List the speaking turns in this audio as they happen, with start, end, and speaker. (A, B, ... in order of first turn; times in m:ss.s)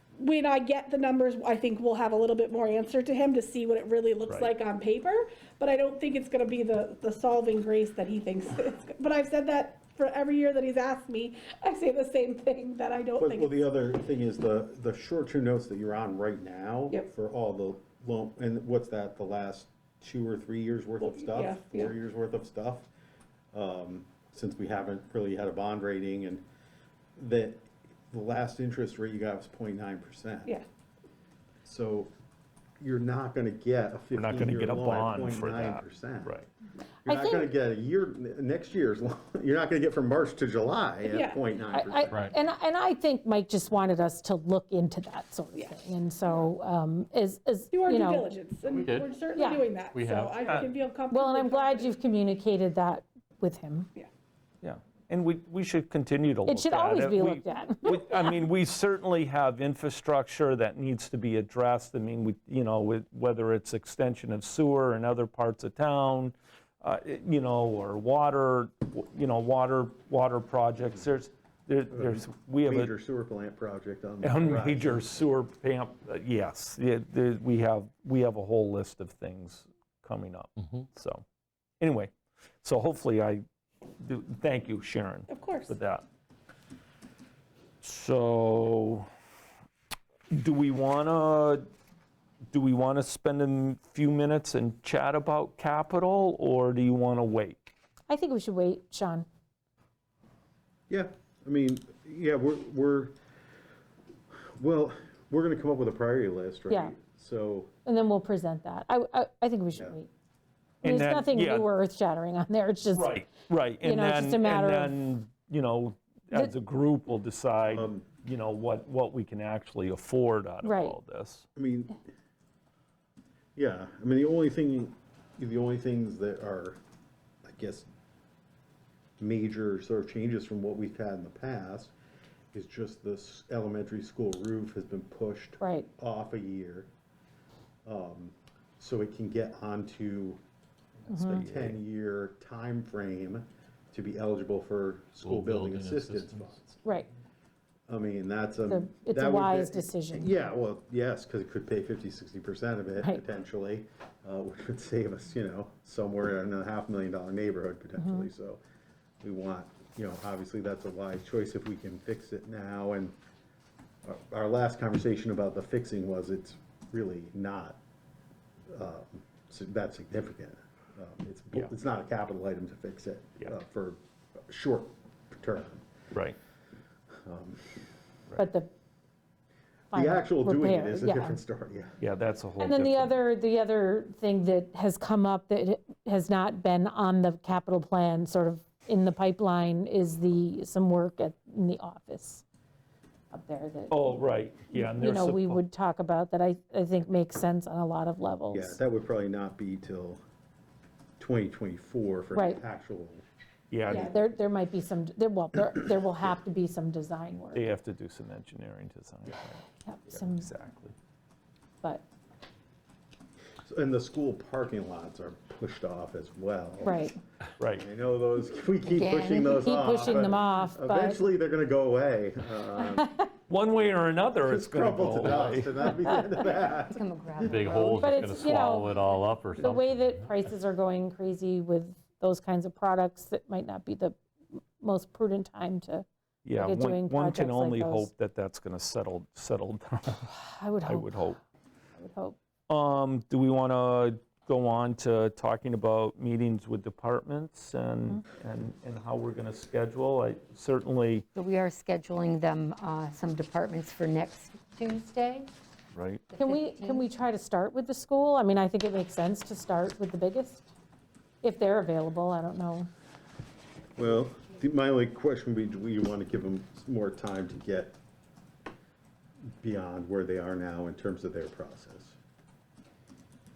0:00.2-0:13.6 A
0:04.2-0:04.5 B
0:13.2-0:22.9 C
0:21.0-0:21.9 A
0:23.5-0:26.4 C
0:27.2-0:30.6 C
0:31.6-0:32.1 C
0:32.8-0:36.4 C
0:34.1-0:36.5 B
0:37.0-0:37.5 D
0:37.0-0:42.3 C
0:41.0-0:41.4 A
0:41.7-0:48.3 D
0:42.1-0:42.4 E
0:45.5-0:46.5 A
0:47.7-0:51.9 A
0:48.6-0:49.4 E
0:49.3-0:49.6 D
0:49.9-0:50.6 E
0:50.4-0:50.7 B
0:51.1-0:53.9 D
0:54.6-1:12.9 B
0:56.4-0:58.3 D
1:11.9-1:15.2 C
1:14.2-1:21.2 B
1:21.8-1:23.4 B
1:24.0-1:26.0 B
1:25.3-1:25.7 A
1:27.8-1:29.1 B
1:30.3-1:31.6 B
1:32.5-1:37.6 B
1:38.1-1:39.2 D
1:40.9-1:43.1 C
1:44.6-1:47.7 C
1:47.8-1:50.1 D
1:50.8-1:51.7 B
1:50.8-1:53.2 D
1:52.9-2:01.4 B
1:53.8-1:54.9 D
1:57.7-1:58.0 C
2:00.6-2:01.0 D
2:01.6-2:02.0 C
2:03.6-2:06.8 C
2:07.4-2:07.9 C
2:09.2-2:11.9 C
2:12.5-2:16.9 C
2:15.6-2:15.9 D
2:17.8-2:20.4 C
2:21.0-2:21.8 B
2:21.1-2:21.4 D
2:21.3-2:26.7 C
2:25.2-2:26.5 E
2:26.8-2:27.1 D
2:27.9-2:38.6 C
2:28.7-2:30.3 D
2:38.0-2:38.3 D
2:39.2-2:43.1 C
2:44.0-2:47.8 C
2:48.7-2:55.8 C
2:57.2-2:57.6 C
2:58.4-2:58.7 D
2:59.9-3:01.4 D
2:59.9-3:02.0 C
3:02.0-3:03.1 B
3:02.6-3:12.4 D
3:13.3-3:18.8 D
3:13.9-3:15.6 B
3:18.5-3:20.2 C
3:21.2-3:23.2 C
3:22.3-3:22.6 D
3:23.7-3:24.1 B
3:23.9-3:27.7 D
3:27.5-3:30.9 B
3:29.8-3:30.5 D
3:33.6-3:37.1 C
3:36.8-3:37.2 D
3:37.6-3:37.8 B
3:37.7-3:43.2 C
3:38.9-3:39.8 F
3:39.6-3:41.2 D
3:43.5-3:45.9 B
3:44.4-3:48.0 C
3:46.1-3:46.4 D
3:46.7-3:48.0 F
3:47.4-3:50.4 E
3:47.9-3:49.0 D
3:49.6-3:54.2 D
3:54.8-3:58.1 D
3:56.4-4:00.3 B
4:00.3-4:01.3 D
4:00.8-4:01.4 B
4:02.0-4:02.4 D
4:02.7-4:11.3 B
4:11.3-4:15.5 F
4:15.9-4:16.2 B
4:16.3-4:17.0 F
4:16.4-4:20.7 D
4:21.4-4:22.9 D
4:24.0-4:28.0 C
4:29.6-4:32.2 C